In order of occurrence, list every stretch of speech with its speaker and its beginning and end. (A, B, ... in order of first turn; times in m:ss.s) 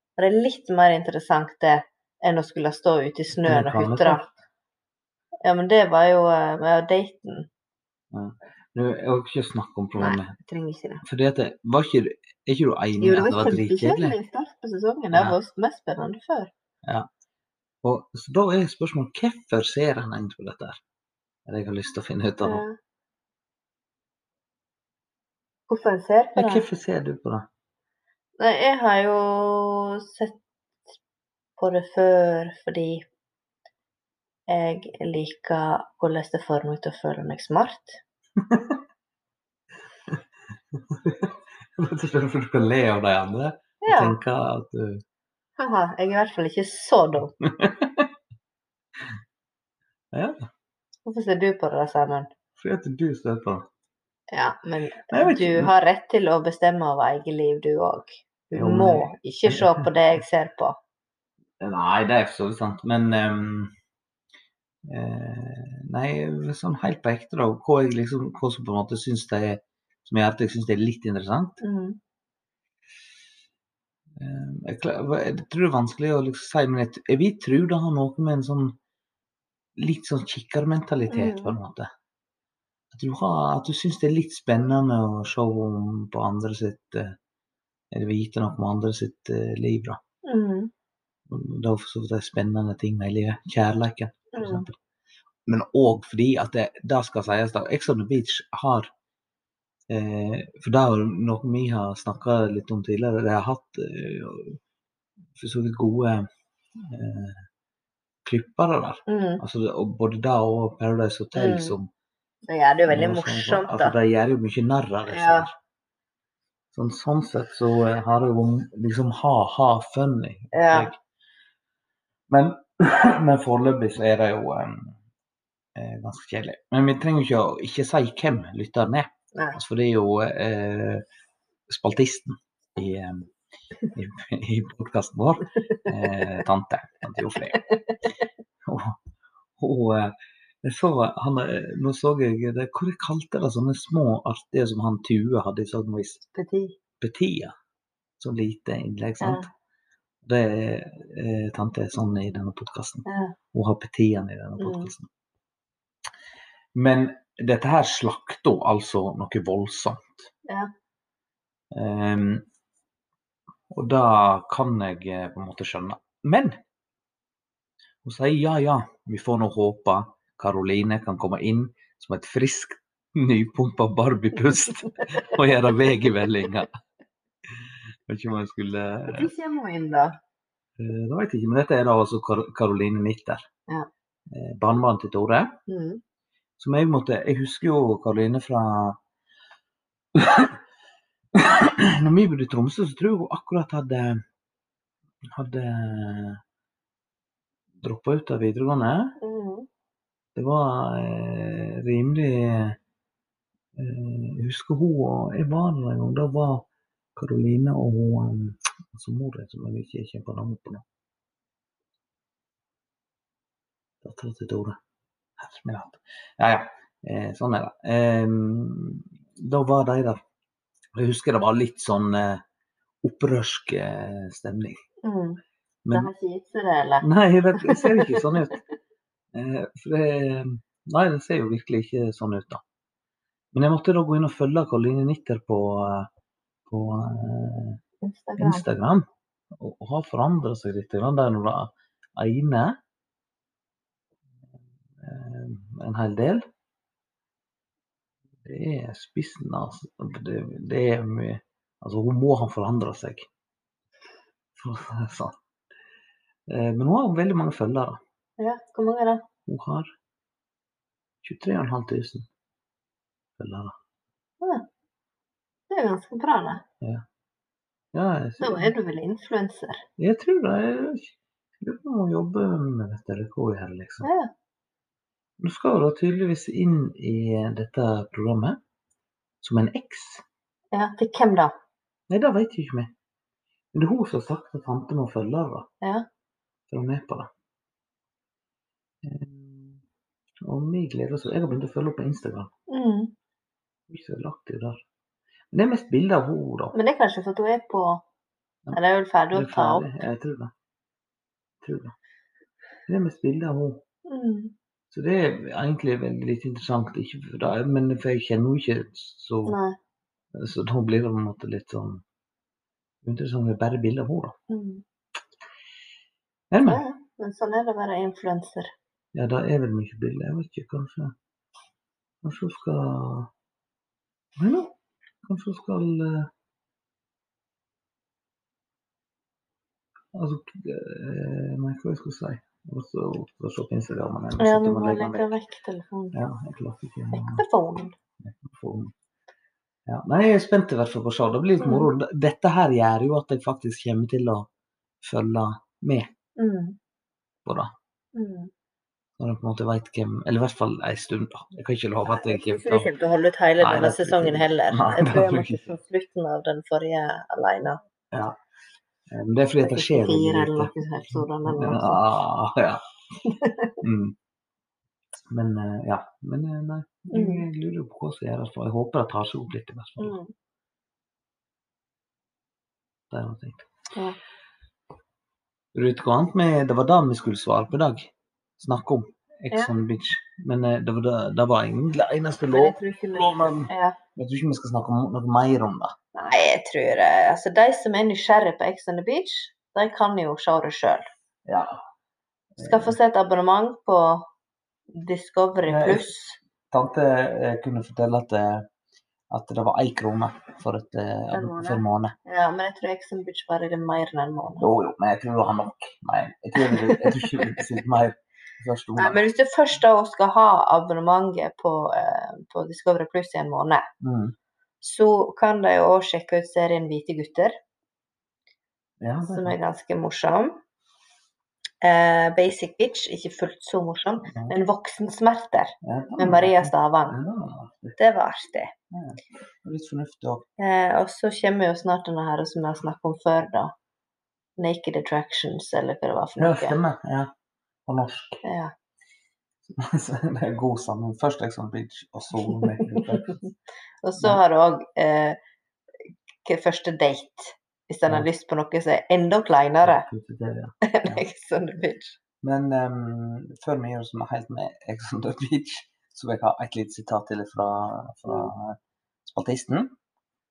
0:00.2-0:04.3 A
0:03.4-0:04.3 B
0:05.4-0:07.5 A
0:08.1-0:10.4 B
0:10.0-0:11.0 A
0:11.0-0:14.2 B
0:13.0-0:16.5 A
0:16.8-0:17.1 B
0:17.8-0:20.8 B
0:21.5-0:22.6 B
0:22.4-0:22.8 A
0:25.7-0:26.6 A
0:26.4-0:27.5 B
0:28.4-0:30.4 A
0:31.6-0:33.1 A
0:34.5-0:38.0 A
0:38.4-0:38.8 B
0:40.7-0:45.0 B
0:43.8-0:44.2 A
0:45.6-0:47.4 A
0:47.4-0:48.1 B
0:50.1-0:50.5 B
0:51.1-0:52.3 A
0:52.6-0:53.7 B
0:54.3-1:00.8 A
0:55.1-0:55.7 B
0:58.5-0:59.9 B
1:01.6-1:03.7 B
1:04.8-1:11.6 B
1:11.6-1:12.0 A
1:14.2-1:18.8 B
1:19.8-1:21.9 B
1:21.1-1:21.6 A
1:22.9-1:27.2 B
1:27.9-1:30.0 B
1:30.2-1:30.7 A
1:31.3-1:34.8 B
1:34.3-1:34.7 A
1:35.5-1:38.9 B
1:39.9-1:44.6 B
1:45.4-1:46.3 B
1:46.8-1:47.4 B
1:48.2-1:51.9 B
1:49.1-1:49.4 A
1:51.4-1:51.8 A
1:52.5-1:54.0 A
1:52.9-1:55.6 B
1:55.1-1:55.5 A
1:56.7-2:01.0 B
2:00.5-2:00.9 A
2:02.3-2:05.0 B
2:05.8-2:11.0 B
2:11.7-2:13.3 B
2:13.9-2:17.6 B
2:18.6-2:19.0 B
2:19.6-2:26.2 B
2:26.3-2:26.8 A
2:27.0-2:27.5 B
2:28.2-2:29.5 B
2:29.2-2:29.5 A
2:30.2-2:35.1 B
2:33.1-2:33.4 A
2:34.6-2:34.9 A
2:36.7-2:40.3 B
2:41.7-2:42.4 B
2:43.7-2:46.6 B
2:48.0-2:56.7 B
2:57.5-2:59.3 B
2:59.1-3:00.2 A
3:00.8-3:03.4 B
3:04.3-3:05.6 B
3:05.7-3:06.0 A
3:06.6-3:09.0 B
3:10.2-3:10.6 B
3:11.4-3:14.2 B
3:15.3-3:16.4 B
3:17.8-3:19.2 B
3:19.2-3:19.7 A
3:20.4-3:22.8 B
3:23.8-3:30.8 B
3:34.0-3:34.8 B
3:35.4-3:40.2 B
3:41.0-3:42.4 B
3:43.0-3:44.8 B
3:45.0-3:45.4 A
3:45.8-3:46.1 B
3:45.9-3:48.4 A
3:47.0-3:48.6 B
3:49.3-3:52.6 B
3:53.5-3:56.1 B
3:56.7-3:57.8 B
3:58.0-3:58.7 A
3:58.4-4:02.8 B
4:05.0-4:06.4 B
4:08.4-4:13.3 B
4:14.6-4:15.4 B
4:16.5-4:18.0 B
4:18.4-4:19.3 A
4:19.5-4:20.0 B
4:21.2-4:22.3 B
4:23.4-4:23.8 B
4:24.4-4:24.7 A
4:25.7-4:26.6 A
4:27.9-4:28.7 B
4:28.4-4:29.8 A
4:30.0-4:34.1 B
4:34.0-4:34.3 A
4:35.4-4:38.6 B
4:39.4-4:40.2 B
4:40.7-4:41.5 A
4:42.1-4:42.9 B
4:43.7-4:45.7 B
4:46.7-4:47.3 B
4:49.0-4:49.8 B
4:50.4-4:52.5 B
4:52.7-4:53.2 A
4:53.9-4:54.8 B
4:55.5-4:56.8 B
4:56.7-4:58.0 A
4:58.7-5:00.0 A
4:59.3-5:00.5 B
5:01.6-5:02.0 B
5:02.9-5:03.8 B
5:04.1-5:04.5 A
5:04.9-5:09.6 B
5:09.5-5:09.8 A
5:10.3-5:12.0 B
5:13.0-5:14.4 B
5:14.5-5:14.8 A
5:16.5-5:16.8 B
5:16.6-5:18.7 A
5:19.1-5:21.2 B
5:22.2-5:23.3 B
5:24.4-5:26.3 B
5:30.1-5:35.3 B
5:34.4-5:36.2 A
5:36.1-5:37.4 B
5:37.1-5:37.9 A
5:38.2-5:38.9 B
5:39.9-5:44.5 B
5:41.6-5:41.9 A
5:45.0-5:46.1 B
5:46.4-5:46.8 A
5:47.4-5:47.7 B
5:48.1-5:48.5 A
5:49.2-5:52.9 B
5:52.1-5:57.8 A
5:53.6-5:55.6 B
5:58.1-5:58.4 B
5:59.1-6:02.8 B
5:59.6-6:02.1 A
6:03.2-6:03.7 A
6:03.8-6:04.2 B
6:05.3-6:10.2 B
6:07.1-6:07.5 A
6:10.0-6:10.3 A
6:13.1-6:13.7 B
6:15.7-6:26.0 B
6:22.5-6:24.0 A
6:26.2-6:31.1 A
6:31.5-6:31.8 B
6:32.6-6:33.0 B
6:32.6-6:34.3 A
6:34.9-6:36.4 A
6:35.7-6:36.1 B
6:36.7-6:38.7 B
6:39.3-6:42.1 B
6:41.3-6:44.7 A
6:44.6-6:49.2 B
6:46.6-6:47.6 A
6:49.0-6:53.9 A
6:54.0-6:54.4 B
6:54.8-6:57.6 A
6:59.0-6:59.6 B
6:59.2-7:00.6 A
7:01.8-7:07.2 A
7:04.2-7:04.5 B
7:05.8-7:08.0 B
7:08.0-7:08.7 A
7:08.9-7:10.4 B
7:10.6-7:13.7 A
7:14.6-7:16.8 A
7:16.4-7:17.3 B
7:17.9-7:18.4 B
7:18.4-7:18.7 A
7:19.7-7:23.4 B
7:22.5-7:23.5 A
7:24.0-7:25.4 A
7:26.4-7:30.1 A
7:29.8-7:31.2 B
7:30.8-7:32.2 A
7:32.4-7:40.0 B